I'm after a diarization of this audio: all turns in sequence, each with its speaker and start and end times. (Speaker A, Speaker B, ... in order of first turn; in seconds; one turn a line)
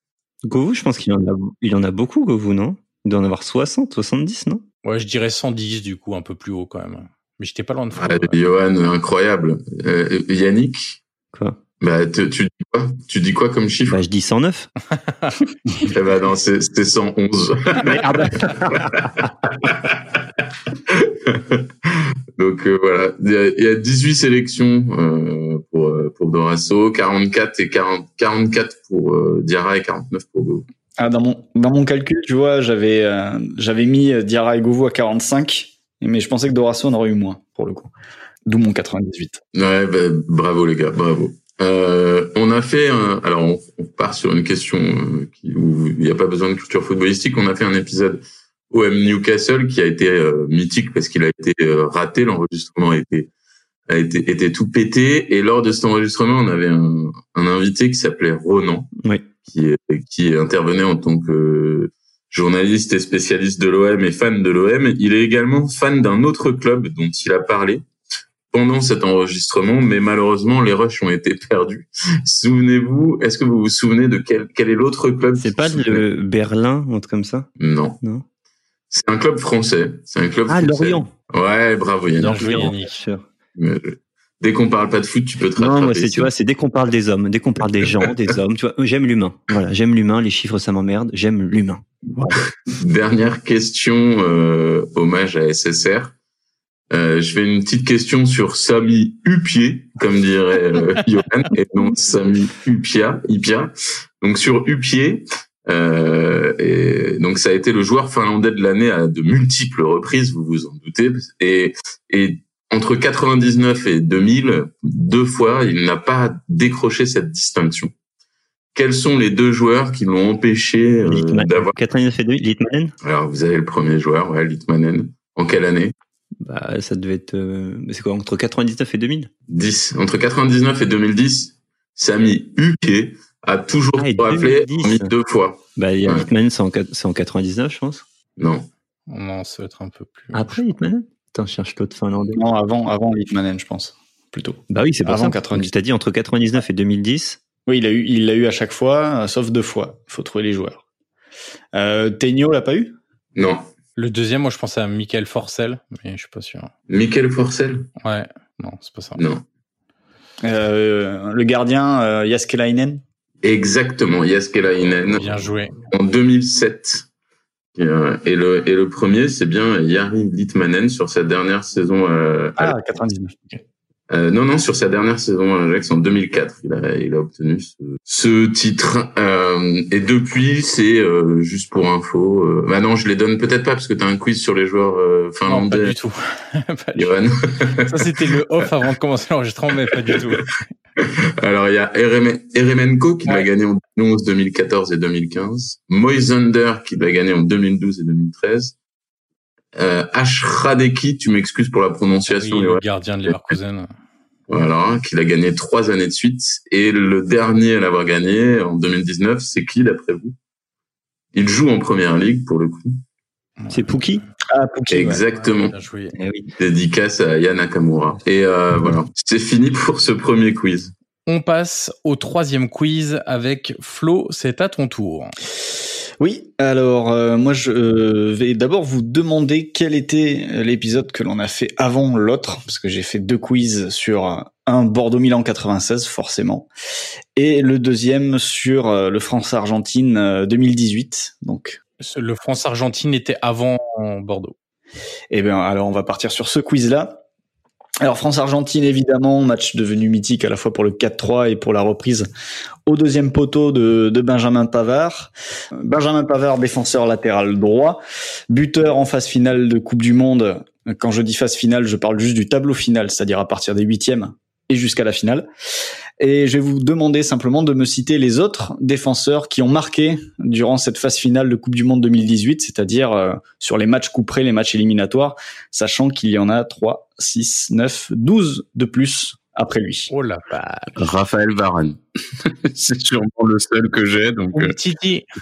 Speaker A: 0.4-4.6
Speaker B: 4.8-8.3
Speaker C: 8.0-11.0
Speaker A: 11.3-11.6
Speaker C: 11.8-14.0
Speaker A: 13.9-14.7
Speaker C: 15.8-20.2
Speaker A: 17.8-19.3
Speaker C: 20.9-30.6
Speaker D: 31.0-37.9
Speaker D: 38.5-39.4
Speaker C: 39.5-53.3
Speaker C: 53.9-58.9
Speaker C: 59.4-67.8
Speaker C: 68.5-76.0
Speaker A: 75.4-77.5
Speaker C: 77.6-78.0
Speaker C: 78.9-82.7
Speaker A: 80.5-81.1
Speaker B: 82.2-83.0
Speaker A: 82.2-83.2
Speaker C: 83.5-86.3
Speaker A: 85.6-92.4
Speaker C: 92.7-96.1
Speaker C: 96.9-117.9
Speaker C: 118.7-121.7
Speaker A: 121.0-122.9
Speaker C: 123.0-125.9
Speaker A: 126.4-129.3
Speaker C: 129.5-136.3
Speaker A: 134.0-135.1
Speaker A: 135.8-138.0
Speaker C: 138.4-138.7
Speaker B: 139.1-140.6
Speaker A: 140.3-142.4
Speaker D: 142.3-145.7
Speaker A: 144.7-147.4
Speaker D: 147.7-150.8
Speaker D: 151.7-152.9
Speaker C: 153.3-153.7
Speaker B: 154.0-156.7
Speaker C: 156.9-157.9
Speaker B: 158.0-159.2
Speaker C: 159.2-159.4
Speaker D: 160.4-163.0
Speaker C: 163.4-167.1
Speaker B: 165.1-165.8
Speaker C: 167.7-172.8
Speaker D: 172.6-173.3
Speaker C: 174.1-185.9
Speaker B: 185.4-187.2
Speaker C: 186.9-188.1
Speaker B: 187.8-190.5
Speaker C: 190.1-190.4
Speaker C: 191.0-198.7
Speaker C: 199.8-203.3
Speaker B: 202.3-203.9
Speaker C: 204.5-210.3
Speaker C: 211.3-213.0
Speaker B: 213.6-214.2
Speaker A: 213.7-214.2
Speaker D: 214.5-215.2
Speaker C: 214.9-215.7
Speaker B: 215.3-216.1
Speaker A: 216.1-216.5
Speaker C: 216.6-220.9
Speaker B: 221.3-225.3
Speaker D: 226.2-236.7
Speaker D: 237.3-241.8
Speaker B: 242.0-244.5
Speaker D: 245.3-247.2
Speaker D: 248.0-252.3
Speaker D: 252.8-265.5
Speaker D: 266.2-280.1
Speaker B: 280.1-280.9
Speaker C: 281.0-284.7
Speaker B: 284.5-285.3